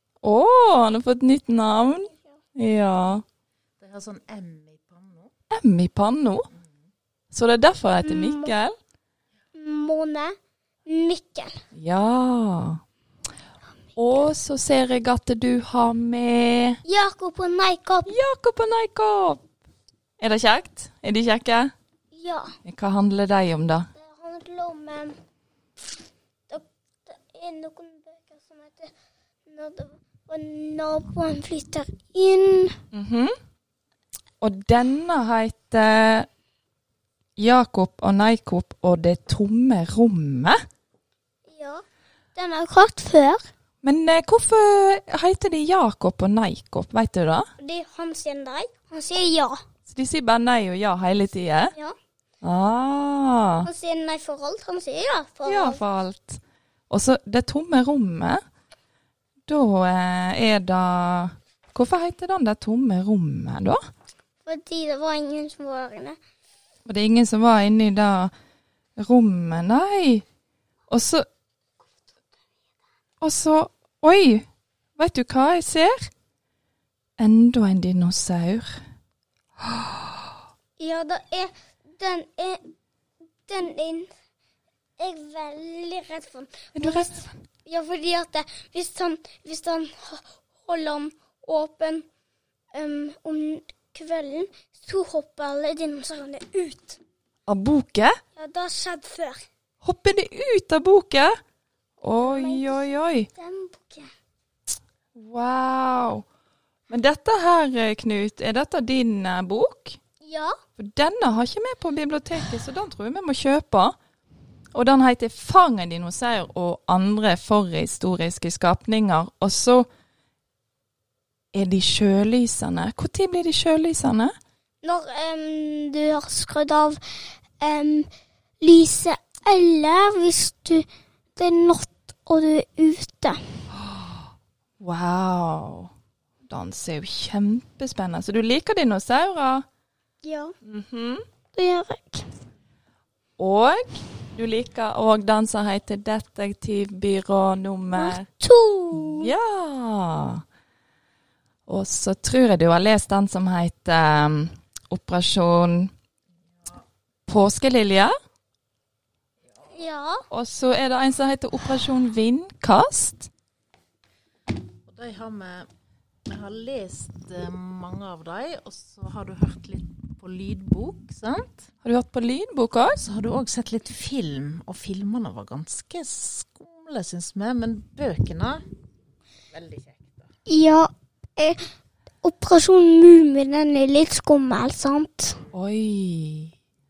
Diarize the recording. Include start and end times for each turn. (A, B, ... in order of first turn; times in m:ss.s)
0:00.2-0:03.2 A
0:03.8-0:05.3 B
0:05.5-0:06.5 A
0:07.3-0:08.8 A
0:08.0-0:08.5 C
0:09.5-0:10.3 C
0:10.8-0:11.5 C
0:11.7-0:12.8 A
0:14.0-0:16.8 A
0:16.8-0:18.1 C
0:18.0-0:19.4 A
0:20.2-0:21.7 A
0:22.1-0:22.5 C
0:22.6-0:23.9 A
0:23.9-0:25.2 C
0:26.5-0:28.9 C
0:29.5-0:32.7 C
0:32.9-0:33.3 A
0:34.4-0:36.3 A
0:37.4-0:40.6 A
0:41.5-0:41.8 C
0:42.3-0:43.4 C
0:43.8-0:47.5 A
0:47.6-0:49.6 C
0:49.9-0:51.7 A
0:52.4-0:53.7 A
0:53.6-0:55.8 C
0:55.4-0:58.4 A
0:59.5-1:03.8 A
1:04.4-1:06.2 C
1:06.8-1:08.3 A
1:09.0-1:10.2 A
1:10.9-1:11.2 A
1:13.2-1:14.4 A
1:15.0-1:16.1 A
1:17.2-1:18.8 A
1:20.8-1:22.7 C
1:23.5-1:24.1 C
1:25.0-1:32.0 C
1:26.7-1:27.2 A
1:32.7-1:37.0 C
1:37.5-1:38.1 A
1:38.4-1:39.4 C
1:39.8-1:41.3 A
1:42.0-1:43.3 A
1:42.1-1:44.1 C
1:45.2-1:46.2 A
1:46.9-1:50.0 A
1:50.2-1:50.5 C
1:50.8-1:53.9 A
1:54.7-1:59.9 A
2:01.5-2:04.3 A
2:04.8-2:07.0 C
2:07.6-2:08.1 C
2:08.6-2:10.8 C
2:11.4-2:13.4 C
2:13.7-2:14.2 A
2:14.8-2:15.9 A
2:16.4-2:19.6 A
2:20.2-2:20.5 C
2:20.6-2:21.2 A
2:21.5-2:22.3 C
2:23.4-2:28.2 A
2:27.9-2:29.3 C
2:28.9-2:30.4 A
2:31.7-2:35.9 A
2:37.3-2:38.1 A
2:39.7-2:40.2 C
2:40.3-2:43.3 A
2:44.9-2:45.7 B
2:46.3-2:51.6 B
2:51.8-2:53.0 A
2:53.0-2:58.6 B
2:59.5-3:00.2 B
3:00.5-3:01.6 C
3:02.2-3:05.4 C
3:05.5-3:06.5 A